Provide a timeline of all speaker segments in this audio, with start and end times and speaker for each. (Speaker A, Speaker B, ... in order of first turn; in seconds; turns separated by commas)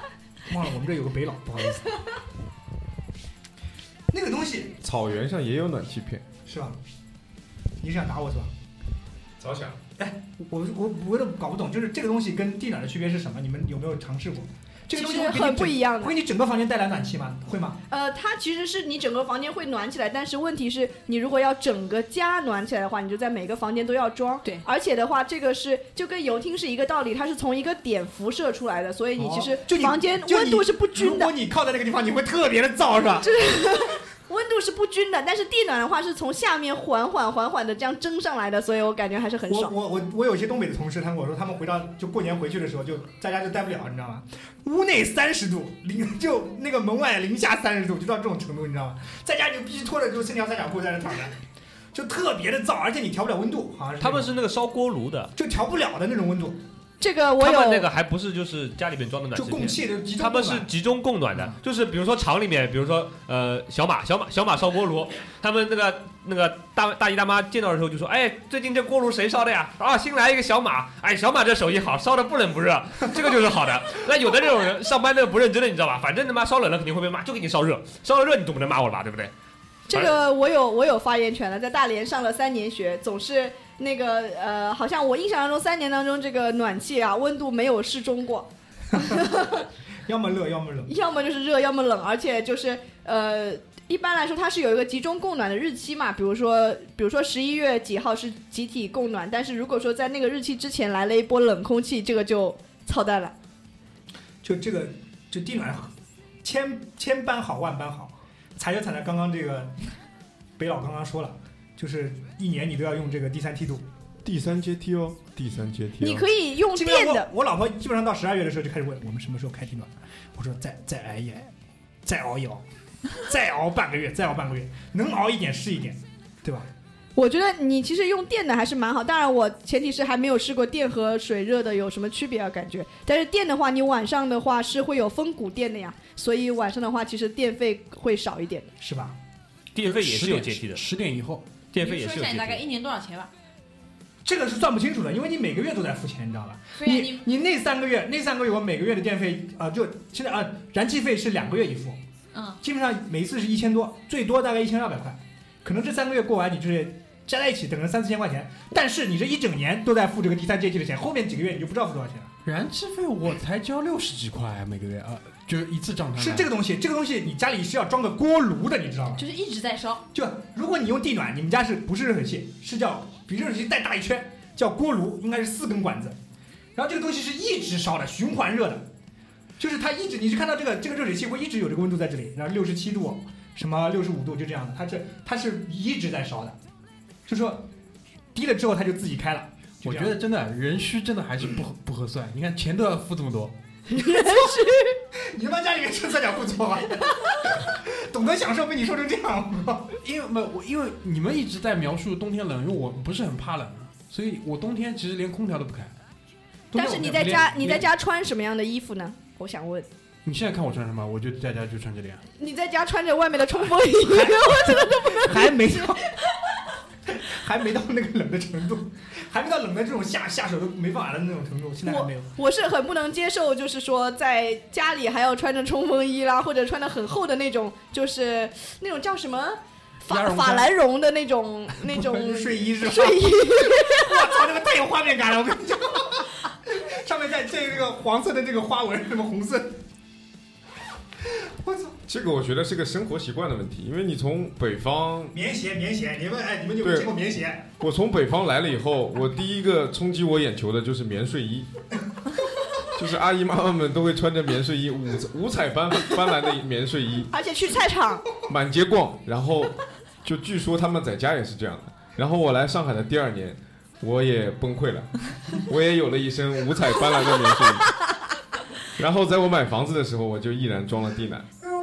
Speaker A: 0.5-1.9, Speaker A: 4.1-4.8, Speaker B: 4.8-6.2, Speaker A: 6.5-6.8, Speaker A: 7.8-8.5, Speaker B: 9.4-9.8, Speaker A: 10.0-17.8, Speaker C: 14.9-16.1, Speaker C: 17.9-31.3, Speaker A: 29.2-33.3, Speaker C: 33.2-39.7, Speaker A: 39.5-51.4, Speaker A: 51.9-54.3, Speaker D: 54.0-55.3, Speaker A: 55.4-56.6, Speaker C: 57.0-57.9, Speaker D: 57.4-79.3, Speaker A: 59.4-60.7, Speaker C: 79.9-89.6, Speaker A: 89.0-89.3, Speaker A: 90.1-90.9, Speaker C: 90.9-103.3, Speaker A: 104.4-105.9, Speaker A: 106.4-109.7, Speaker A: 110.6-113.8, Speaker B: 114.2-116.3, Speaker C: 116.0-117.3, Speaker A: 116.7-121.5, Speaker A: 122.0-122.6, Speaker A: 123.2-126.7, Speaker C: 127.2-138.7, Speaker A: 138.8-139.2, Speaker D: 139.8-140.8, Speaker E: 139.8-141.5, Speaker D: 141.7-142.6, Speaker F: 141.8-143.3, Speaker A: 144.2-152.0, Speaker F: 146.8-147.2, Speaker F: 152.3-152.6, Speaker A: 152.6-162.3, Speaker E: 162.4-166.5, Speaker A: 166.2-169.2, Speaker F: 169.2-170.1, Speaker A: 170.1-176.2, Speaker A: 176.8-178.9, Speaker A: 179.6-186.6, Speaker A: 187.3-187.7, Speaker A: 188.3-190.2, Speaker E: 189.8-193.6, Speaker C: 193.9-194.9, Speaker A: 195.3-199.9, Speaker E: 200.0-205.9, Speaker A: 206.7-207.2, Speaker C: 206.7-209.9, Speaker E: 206.9-207.9, Speaker E: 210.2-212.2, Speaker C: 212.4-215.9, Speaker A: 214.1-216.0, Speaker A: 217.1-222.3, Speaker C: 221.9-234.1, Speaker E: 230.1-230.7, Speaker A: 231.8-239.8, Speaker A: 241.3-242.0, Speaker B: 242.1-245.3, Speaker A: 245.3-247.7, Speaker B: 246.8-247.1, Speaker B: 247.8-251.7, Speaker B: 252.9-257.3, Speaker C: 257.3-258.2, Speaker B: 258.5-268.0, Speaker B: 269.0-271.5